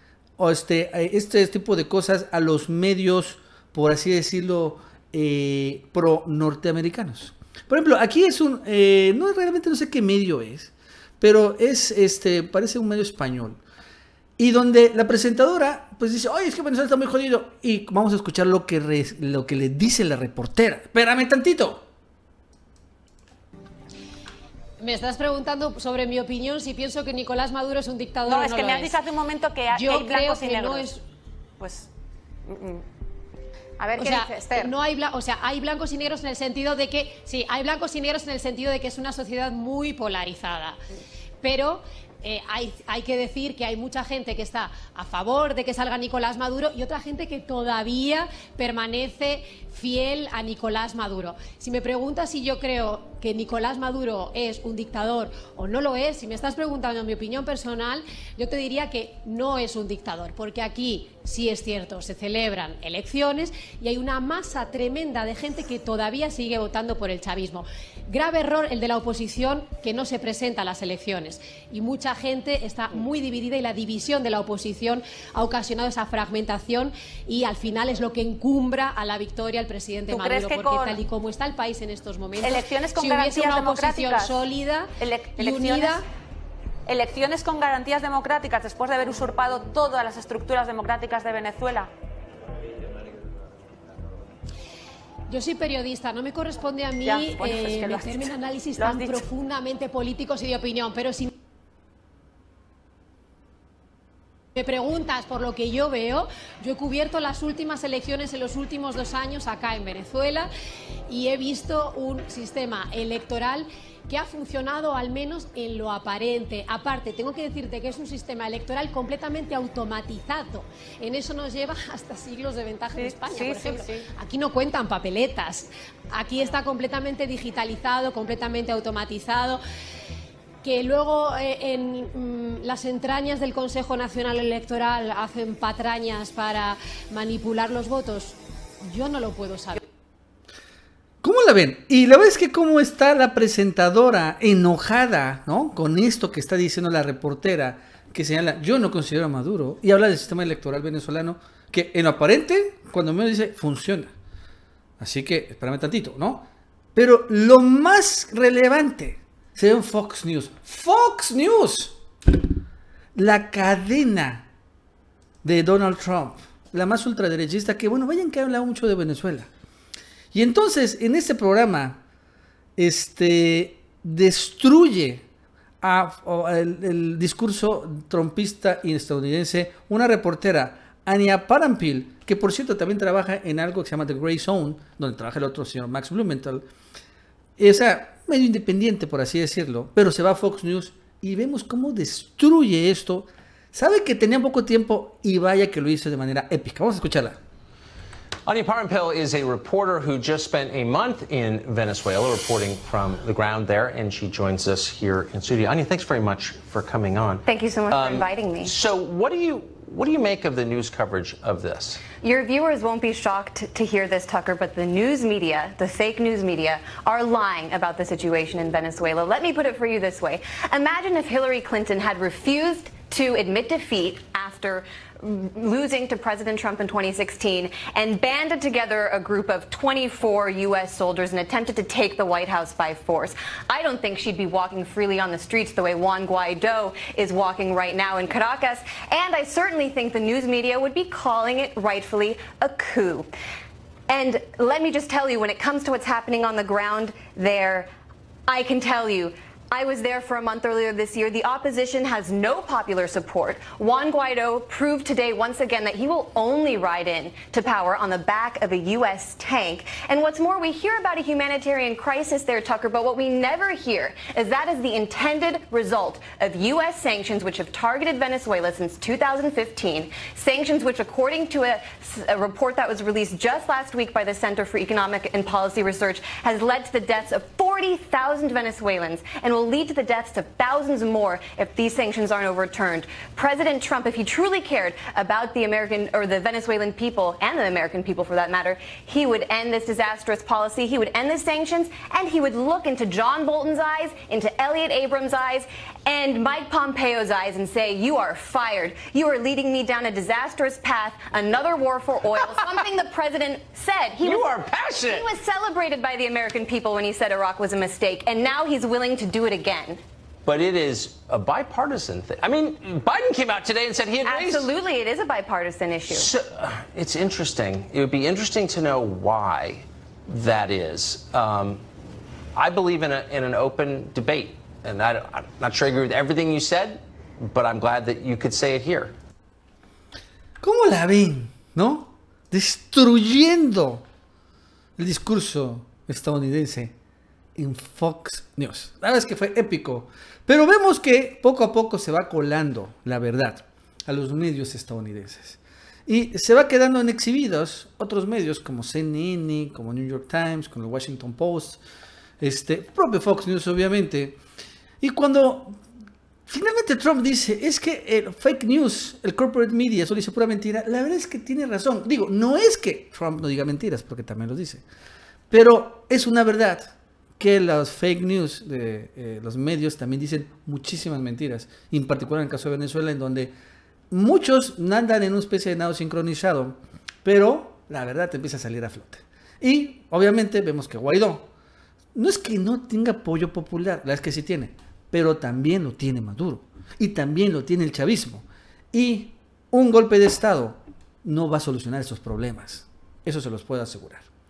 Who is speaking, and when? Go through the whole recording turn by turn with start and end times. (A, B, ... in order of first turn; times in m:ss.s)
0:00.4-0:13.6 A
0:14.4-0:21.8 A
0:24.8-0:29.0 B
0:28.2-0:30.9 C
0:29.7-0:31.0 B
0:31.6-0:31.9 C
0:32.5-0:32.8 C
0:33.8-0:34.8 C
0:33.9-0:40.8 B
0:41.4-1:26.0 B
1:20.1-1:21.0 C
1:22.4-1:24.5 C
1:25.0-1:26.0 C
1:26.9-1:31.9 C
1:35.3-1:41.3 B
1:37.0-1:39.2 C
1:44.5-1:50.5 B
1:51.1-2:09.6 B
2:02.9-2:04.1 C
2:10.6-2:19.8 B
2:21.2-2:34.1 A
2:35.0-2:42.0 A
2:43.2-2:44.5 A
2:45.4-2:49.5 A
2:50.3-2:52.0 A
2:52.8-2:55.2 A
2:55.8-3:06.6 A
3:07.6-3:17.4 A
3:18.4-3:32.0 D
3:27.4-3:28.7 E
3:32.2-4:03.3 E
4:04.1-4:07.9 E
4:08.5-5:04.4 E
5:04.2-5:05.4 D
5:05.0-5:10.0 E
5:10.4-5:14.7 D
5:14.2-5:16.3 E
5:16.0-5:21.8 D
5:22.5-5:29.1 D
5:30.6-5:34.0 A
5:35.0-5:36.9 A
5:37.6-5:51.8 A
5:52.4-5:54.4 A
5:55.0-5:55.8 A
5:56.5-6:04.8 A
6:05.5-6:13.5 A
6:14.1-6:21.5 A
6:22.1-6:34.3 A